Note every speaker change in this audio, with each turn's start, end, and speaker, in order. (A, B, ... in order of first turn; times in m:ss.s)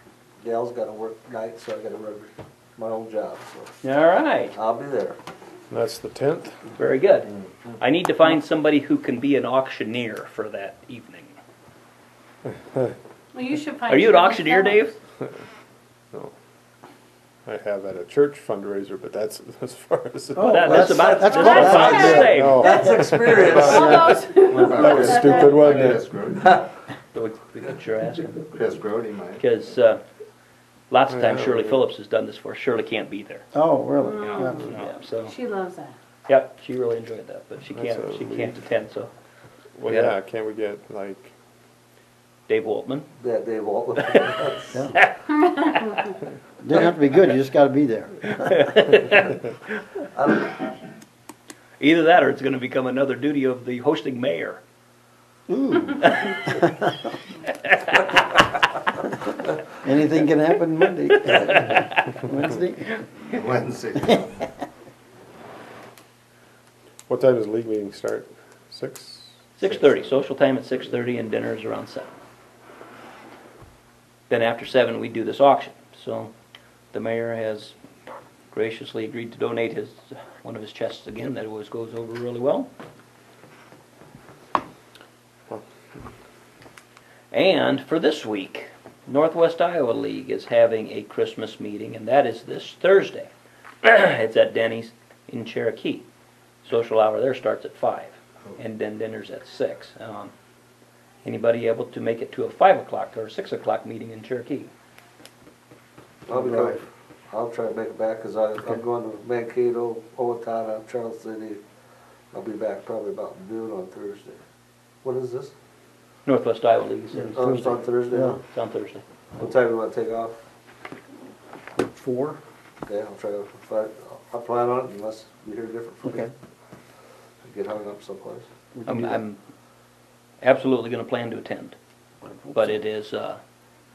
0:00.4-0:03.7 A
0:03.8-0:04.5 B
0:04.5-0:05.2 A
0:05.7-0:06.6 C
0:06.8-0:11.3 B
0:13.3-0:14.8 D
0:13.9-0:15.0 B
0:17.4-0:21.2 C
0:20.4-0:22.3 E
0:20.5-0:22.7 B
0:20.6-0:24.2 A
0:21.3-0:22.2 D
0:21.9-0:26.1 C
0:23.5-0:23.8 F
0:23.6-0:25.7 D
0:23.7-0:24.2 E
0:24.4-0:26.6 F
0:27.1-0:28.5 B
0:28.5-0:29.4 F
0:29.4-0:30.0 B
0:30.9-0:33.4 B
0:31.1-0:31.8 C
0:33.5-0:34.8 E
0:34.0-0:35.9 D
0:34.5-0:35.3 B
0:36.3-0:39.1 B
0:37.7-0:38.6 C
0:39.8-0:41.3 C
0:39.9-0:40.2 B
0:42.5-0:43.0 B
0:43.2-0:44.8 A
0:44.9-0:46.1 B
0:46.6-0:48.6 E
0:48.3-0:49.4 B
0:50.2-0:50.5 A
0:51.8-0:54.6 B
0:55.5-0:57.1 E
0:56.0-0:56.4 B
0:57.5-0:58.1 B
0:59.8-1:03.0 E
1:01.2-1:01.9 B
1:03.3-1:04.5 F
1:07.1-1:09.5 C
1:09.6-1:12.1 B
1:14.3-1:16.3 B
1:16.9-1:17.7 B
1:18.5-1:22.7 B
1:27.3-1:33.3 B
1:33.8-1:36.0 B
1:36.6-1:40.3 B
1:41.2-1:44.7 B
1:46.3-1:51.6 A
1:46.3-1:46.8 E
1:52.3-1:54.4 A
1:55.0-1:55.5 A
1:56.2-1:57.3 B
1:57.1-1:58.4 E
1:57.3-1:58.4 A
1:58.5-1:59.0 B
1:59.4-2:00.4 A
2:01.8-2:02.4 E
2:02.8-2:06.3 A
2:06.0-2:06.3 E
2:07.4-2:08.5 A
2:08.7-2:09.2 E
2:08.9-2:09.4 B
2:10.4-2:11.8 B
2:12.2-2:12.8 E
2:12.5-2:13.4 B